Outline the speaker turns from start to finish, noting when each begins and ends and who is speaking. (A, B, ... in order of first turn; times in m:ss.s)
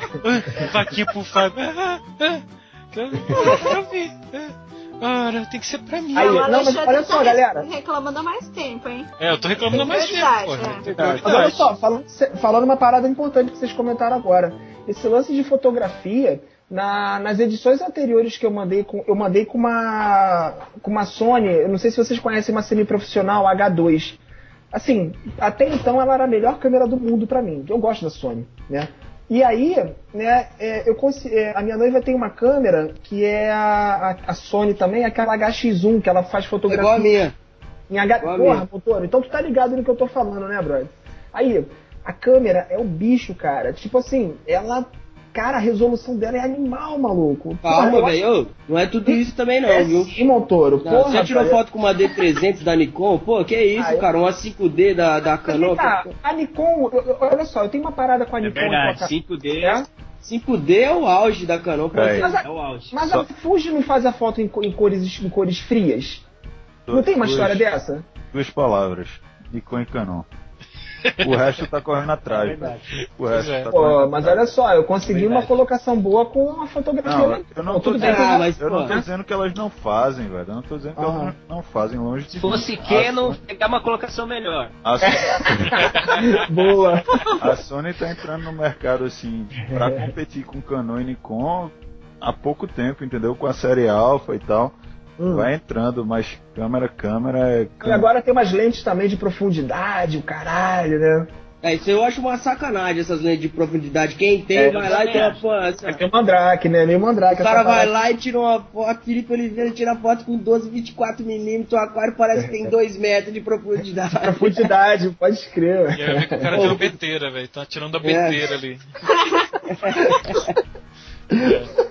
0:00.2-0:06.6 A
0:06.1-0:07.6 B
0:06.2-0:09.1 C
0:09.2-0:11.7 A
0:09.7-0:10.9 C
0:10.9-0:11.4 D
0:11.2-0:24.2 B
0:24.7-0:37.1 B
0:36.7-0:37.4 D
0:37.9-0:48.2 B
0:38.2-0:38.6 D
0:47.6-0:50.1 D
0:49.1-0:51.6 B
0:50.8-0:56.1 D
0:53.8-0:54.1 B
0:55.4-0:59.8 B
0:58.4-0:59.9 E
1:00.2-1:02.2 D
1:01.9-1:02.2 F
1:02.2-1:06.2 B
1:02.2-1:03.0 E
1:06.9-1:07.7 F
1:06.9-1:08.0 B
1:08.3-1:10.3 F
1:11.2-1:14.5 F
1:12.3-1:12.9 E
1:13.3-1:13.7 A
1:13.7-1:19.0 B
1:15.1-1:15.5 A
1:15.2-1:15.5 E
1:17.0-1:23.4 F
1:18.0-1:19.0 D
1:21.0-1:21.3 B
1:22.3-1:24.8 E
1:24.8-1:25.8 F
1:25.0-1:27.4 B
1:25.8-1:26.2 A
1:27.4-1:34.8 F
1:29.6-1:30.1 B
1:35.2-1:35.5 B
1:35.3-1:38.1 F
1:37.8-1:41.3 B
1:41.6-1:45.9 D
1:44.5-1:47.9 B
1:44.6-1:45.4 E
1:47.3-1:54.5 D
1:52.4-1:52.7 B
1:54.2-1:56.9 B
1:56.0-1:58.8 A
1:58.0-1:58.4 D
1:59.7-2:00.5 D
2:01.3-2:01.6 B
2:01.3-2:01.7 A